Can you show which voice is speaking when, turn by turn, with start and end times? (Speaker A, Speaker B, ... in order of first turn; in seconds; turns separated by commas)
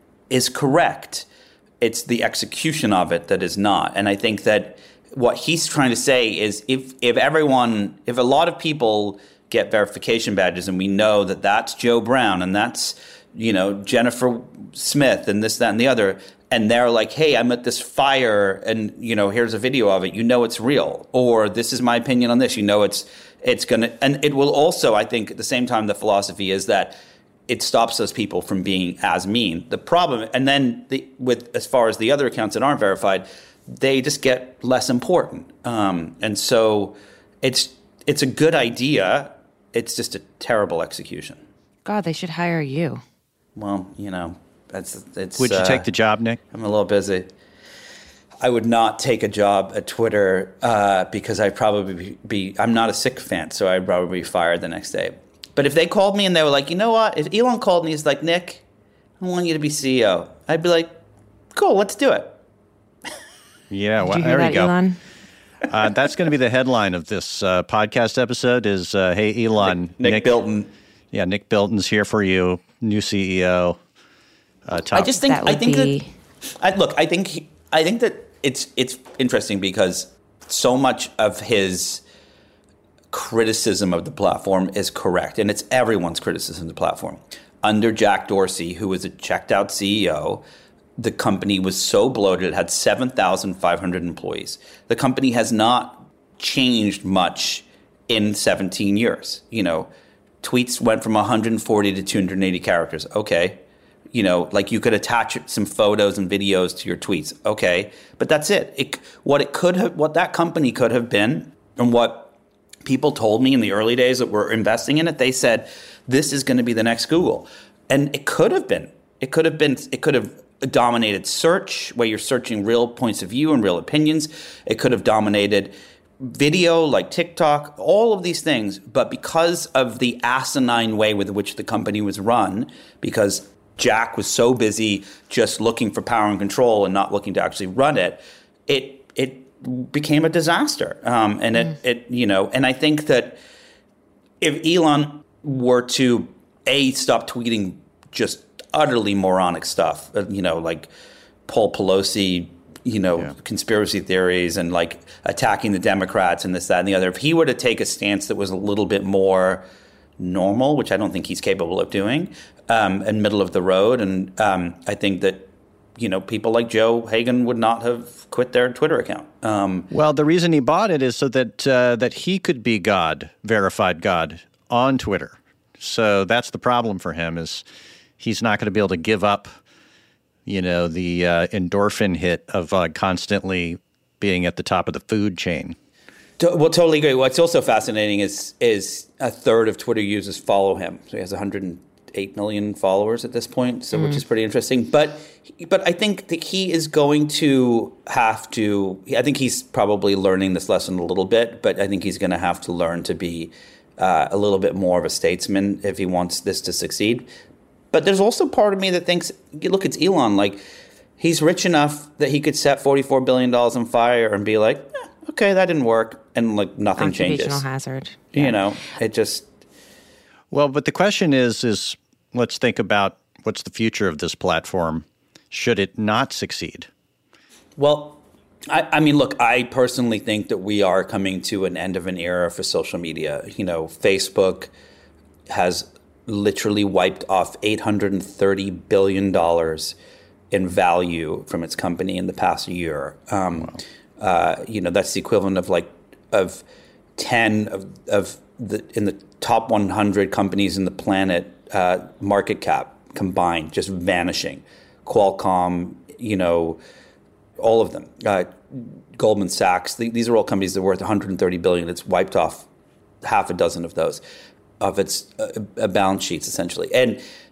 Speaker A: 0.3-1.3, Speaker A: 1.8-26.9, Speaker A: 27.5-41.4, Speaker B: 41.8-43.0, Speaker A: 43.5-45.9, Speaker C: 45.4-46.4, Speaker A: 46.5-47.3, Speaker A: 48.4-58.6, Speaker A: 59.2-61.0, Speaker A: 61.5-62.4, Speaker C: 63.7-64.7, Speaker B: 64.0-65.0, Speaker C: 65.7-70.3, Speaker A: 69.6-70.7, Speaker C: 71.1-73.8, Speaker C: 74.7-75.1, Speaker A: 74.9-76.0, Speaker B: 75.0-76.1, Speaker A: 76.6-82.0, Speaker A: 83.1-90.4, Speaker A: 91.0-99.9, Speaker A: 100.4-103.6, Speaker A: 104.1-112.3, Speaker A: 112.8-143.4, Speaker A: 144.4-150.9, Speaker A: 151.5-159.6, Speaker A: 160.2-169.9, Speaker C: 169.9-177.6, Speaker C: 178.2-179.5, Speaker C: 180.4-185.8, Speaker A: 186.4-207.3, Speaker B: 193.9-194.2, Speaker A: 207.9-210.6, Speaker A: 211.2-217.6, Speaker B: 217.0-218.6, Speaker A: 218.3-219.4, Speaker C: 220.5-226.9, Speaker A: 227.8-234.7, Speaker A: 235.5-239.9, Speaker A: 240.5-246.6, Speaker A: 247.2-256.8, Speaker A: 257.6-262.6, Speaker A: 263.2-264.2, Speaker A: 264.8-267.2